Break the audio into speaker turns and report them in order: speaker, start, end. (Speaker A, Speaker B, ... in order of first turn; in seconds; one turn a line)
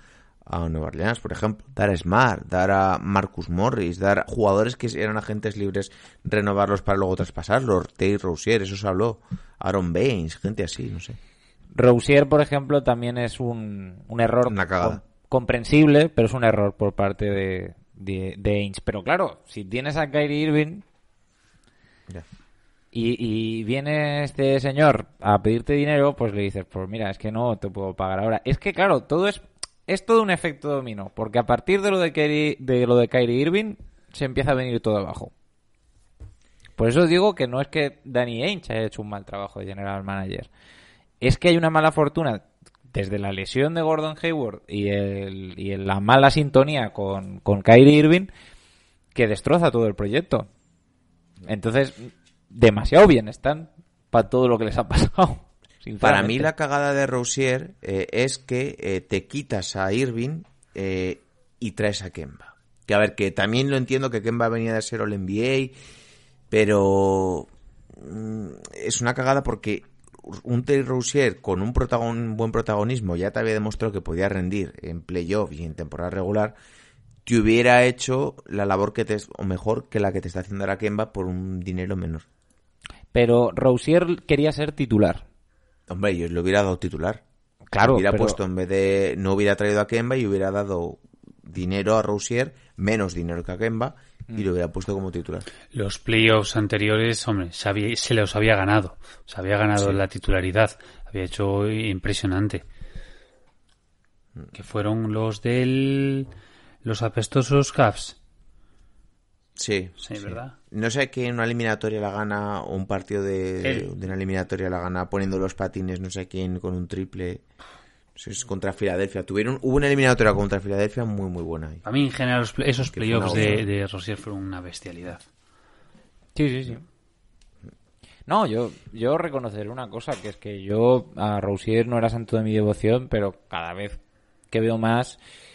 Speaker A: 0.5-11.2
Speaker B: 11.7-20.8
Speaker A: 14.5-15.0
Speaker B: 22.9-35.3
Speaker B: 36.8-40.5
Speaker B: 41.2-48.3
Speaker B: 49.1-50.5
Speaker B: 51.5-56.5
Speaker A: 56.0-65.7
Speaker A: 66.5-76.6
Speaker A: 77.2-82.2
Speaker B: 83.1-85.2
Speaker A: 85.9-87.2
Speaker B: 87.7-88.4
Speaker A: 87.8-95.5
Speaker C: 95.7-102.6
Speaker C: 104.5-106.3
Speaker C: 106.8-108.2
Speaker A: 109.5-117.4
Speaker C: 110.0-110.5
Speaker A: 118.2-121.8
Speaker C: 121.8-125.2
Speaker A: 122.9-123.6
Speaker B: 126.3-126.8
Speaker B: 128.3-134.0
Speaker B: 134.5-135.2